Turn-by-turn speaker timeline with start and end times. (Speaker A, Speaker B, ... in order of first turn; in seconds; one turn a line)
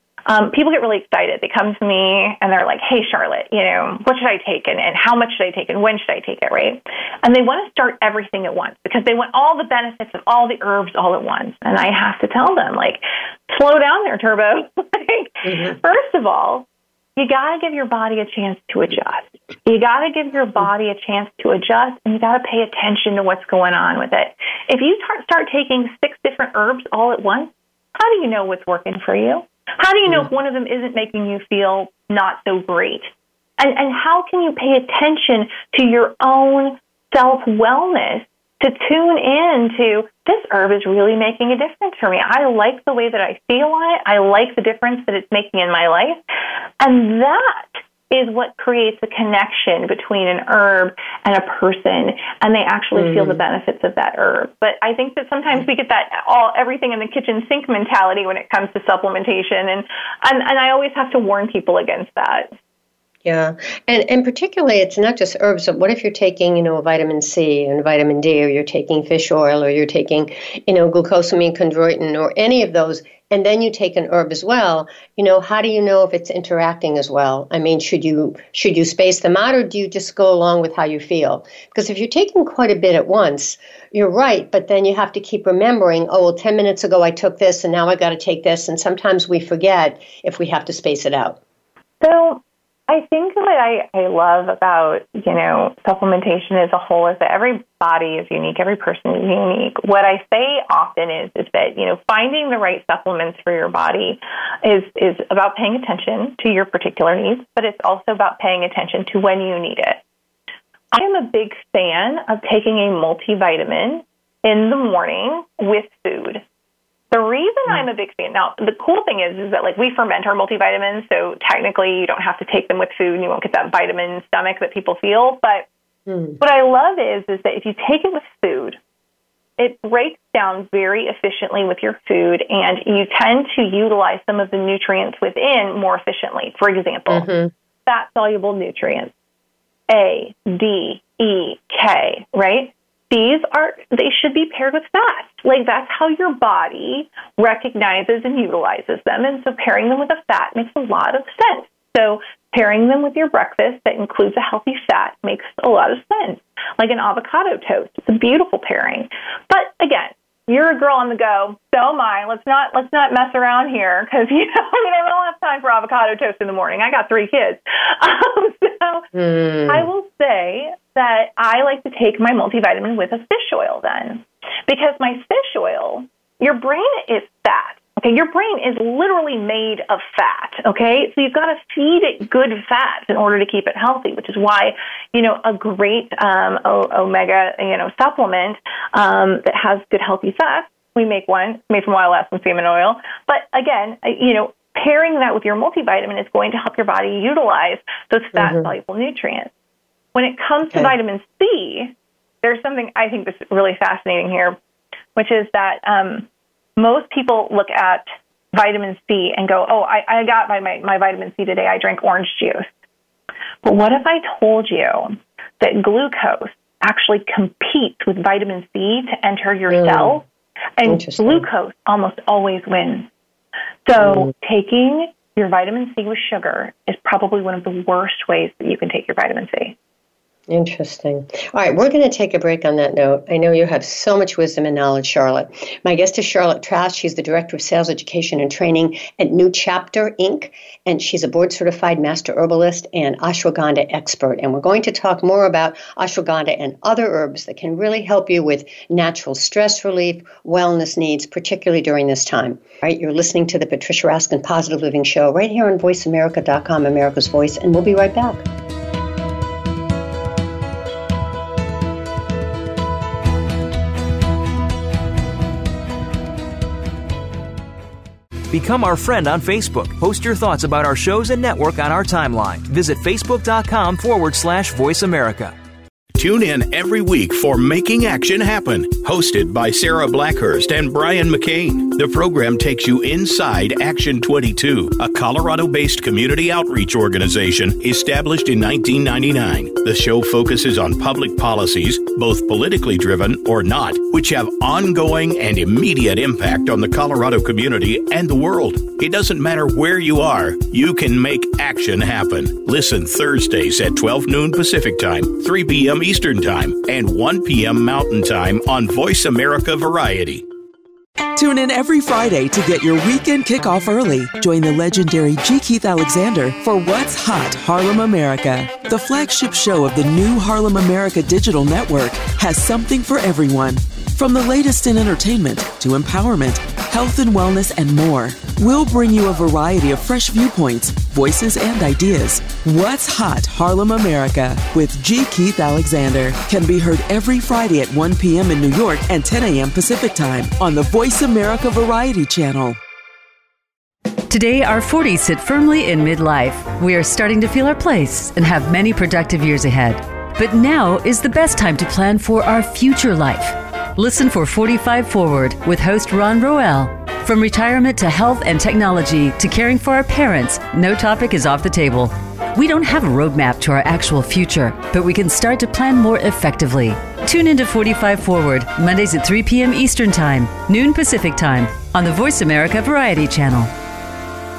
Speaker A: 0.3-16.7
Speaker B: 15.5-15.7
Speaker A: 17.2-46.2
Speaker A: 46.8-62.5
Speaker B: 53.0-53.4
Speaker B: 63.2-91.4
Speaker A: 92.0-110.0
Speaker A: 110.9-116.4
Speaker A: 117.1-125.7
Speaker B: 126.1-126.4
Speaker A: 126.4-128.8
Speaker A: 129.6-137.3
Speaker B: 137.1-137.5
Speaker A: 137.9-139.1
Speaker A: 139.9-169.1
Speaker B: 169.1-169.9
Speaker A: 169.7-199.5
Speaker B: 198.3-198.7
Speaker A: 200.2-204.6
Speaker A: 205.2-212.7
Speaker A: 213.6-220.2
Speaker B: 219.7-220.2
Speaker A: 220.8-223.1
Speaker B: 220.9-221.4
Speaker A: 223.9-229.8
Speaker B: 224.0-224.3
Speaker B: 230.5-258.5
Speaker C: 268.5-275.5
Speaker D: 276.1-310.4
Speaker E: 311.4-342.8
Speaker F: 344.3-373.7